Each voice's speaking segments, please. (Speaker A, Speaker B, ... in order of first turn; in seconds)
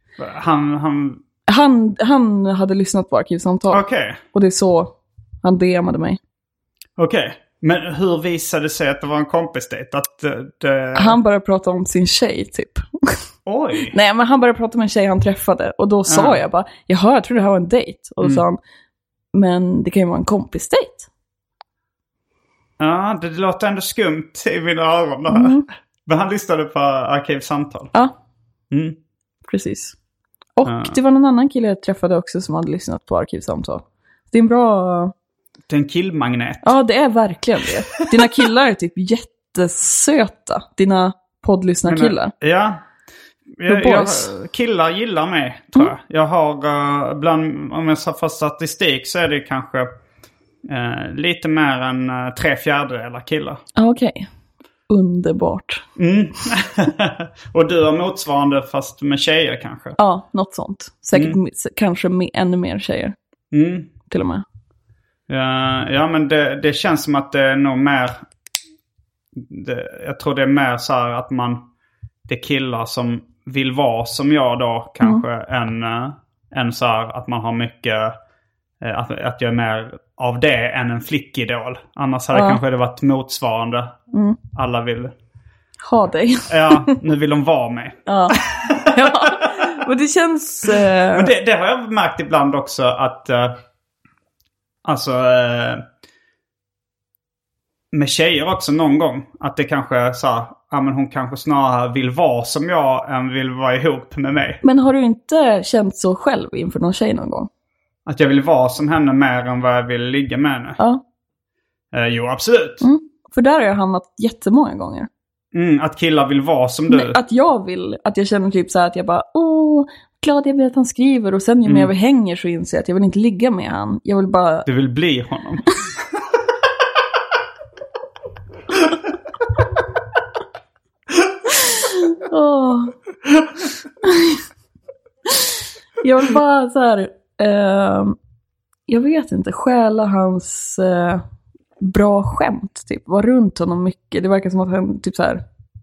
Speaker A: 0.2-1.2, 3.7-4.2, 7.0-11.2, 13.5-13.9, 16.1-16.4, 22.8-27.9, 28.7-29.0, 30.6-31.0, 35.7-36.8, 41.9-42.8, 43.6-49.9, 50.6-53.6, 56.0-60.0, 63.5-63.9, 65.3-68.3, 69.3-71.7, 72.3-78.2, 78.8-84.0, 84.5-85.1, 86.5-89.3, 91.1-93.6, 94.8-95.8, 97.9-104.6, 108.1-110.8, 111.9-112.8, 115.5-117.2, 121.7-121.9, 124.7-125.8
Speaker B: 1.5-6.2, 10.9-13.2, 13.9-18.6, 19.3-21.1, 25.3-25.6, 29.5-30.0, 30.6-35.1, 36.6-42.3, 43.7-44.3, 53.8-54.3, 54.9-55.9, 60.0-63.1, 64.1-64.5, 82.3-82.6, 84.1-84.4, 85.8-87.0, 88.1-91.3, 104.6-107.5, 112.8-115.1, 116.9-124.7, 131.6-132.9, 134.0-134.4, 135.3-138.2, 138.9-141.2, 141.8-145.4